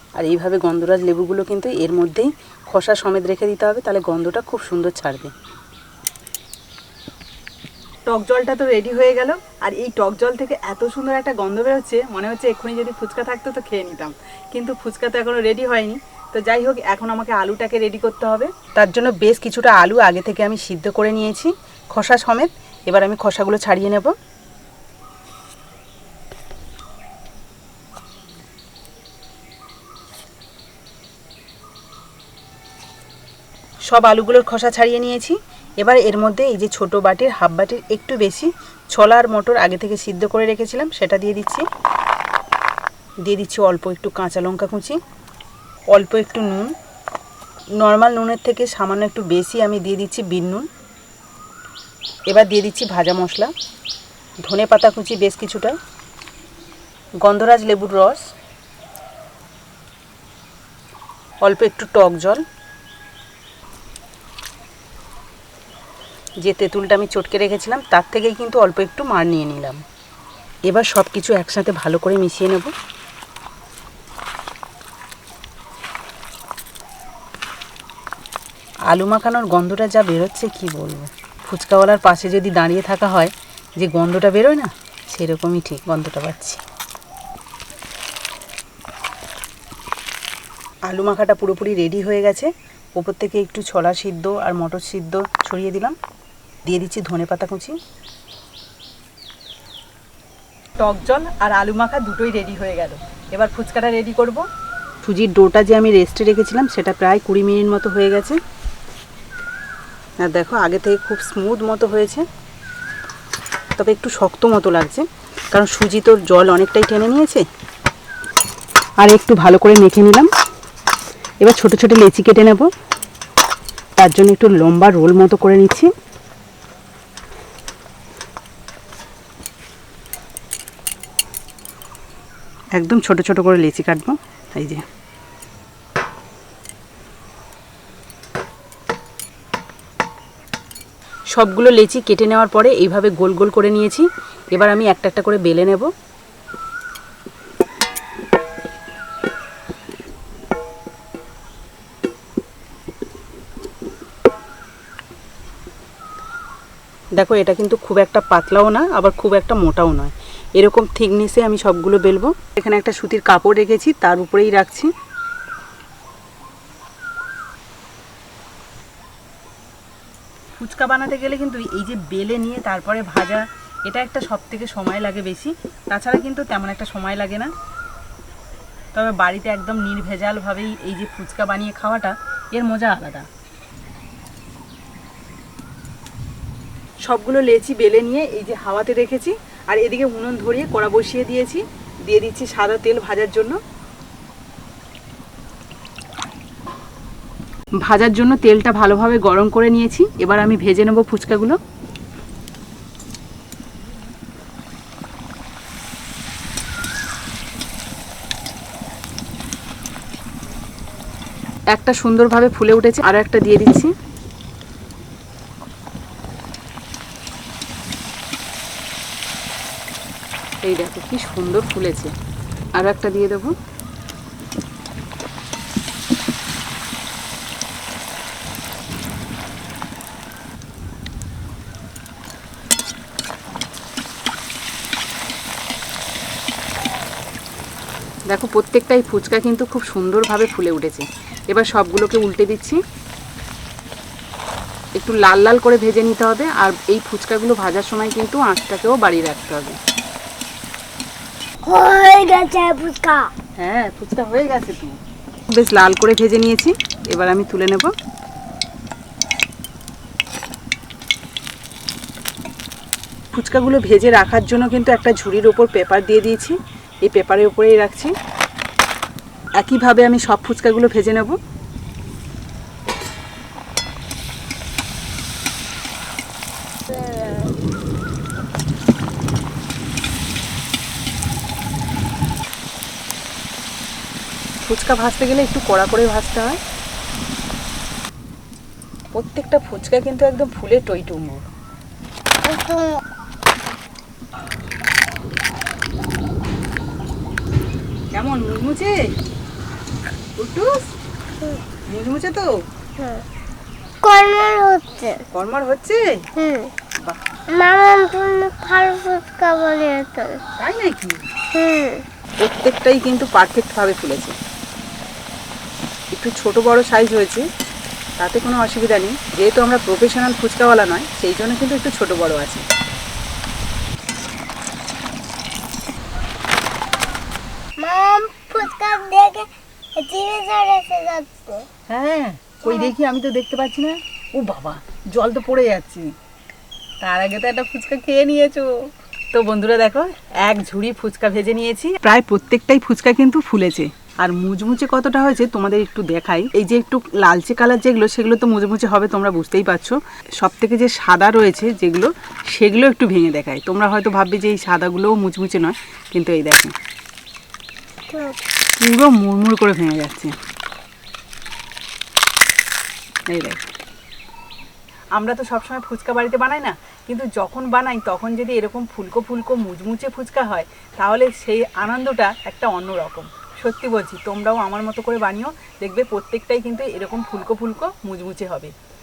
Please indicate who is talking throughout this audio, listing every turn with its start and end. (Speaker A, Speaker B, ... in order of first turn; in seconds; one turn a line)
Speaker A: 0.2-5.3
Speaker A: 8.1-24.1
Speaker A: 33.9-41.6
Speaker A: 43.2-45.0
Speaker A: 45.9-46.7
Speaker A: 47.8-50.7
Speaker A: 52.3-53.5
Speaker A: 54.4-55.7
Speaker A: 57.2-58.2
Speaker A: 61.4-62.4
Speaker A: 66.4-69.8
Speaker A: 70.7-72.7
Speaker A: 78.9-86.6
Speaker A: 90.9-95.9
Speaker A: 96.7-97.8
Speaker A: 100.8-104.4
Speaker A: 105.0-108.4
Speaker A: 110.2-112.2
Speaker A: 113.8-117.4
Speaker A: 119.0-120.3
Speaker A: 121.4-122.7
Speaker A: 124.0-125.9
Speaker A: 132.7-134.8
Speaker A: 141.3-145.9
Speaker A: 157.2-164.9
Speaker A: 170.6-177.5
Speaker A: 178.9-183.3
Speaker A: 187.0-193.6
Speaker A: 197.8-201.6
Speaker A: 211.7-213.9
Speaker A: 220.6-222.1
Speaker A: 222.8-223.5
Speaker A: 238.3-242.8
Speaker A: 245.0-249.8
Speaker B: 251.6-253.3
Speaker A: 253.6-255.0
Speaker A: 255.5-257.9
Speaker A: 263.3-268.1
Speaker A: 269.6-271.4
Speaker B: 276.9-277.5
Speaker A: 284.6-286.6
Speaker A: 289.1-291.4
Speaker B: 292.4-293.0
Speaker A: 298.1-298.9
Speaker A: 300.4-300.8
Speaker A: 301.9-302.5
Speaker B: 303.0-303.2
Speaker B: 304.0-305.2
Speaker A: 305.3-306.1
Speaker B: 306.4-306.7
Speaker B: 307.5-310.4
Speaker A: 310.6-311.2
Speaker B: 311.5-312.0
Speaker A: 312.4-314.3
Speaker A: 316.1-317.4
Speaker A: 318.2-322.6
Speaker B: 327.8-331.7
Speaker A: 331.9-336.1
Speaker A: 337.0-338.7
Speaker A: 339.3-356.7
Speaker B: 358.1-358.4
Speaker A: 358.8-360.3
Speaker A: 363.3-363.6
Speaker A: 365.1-378.7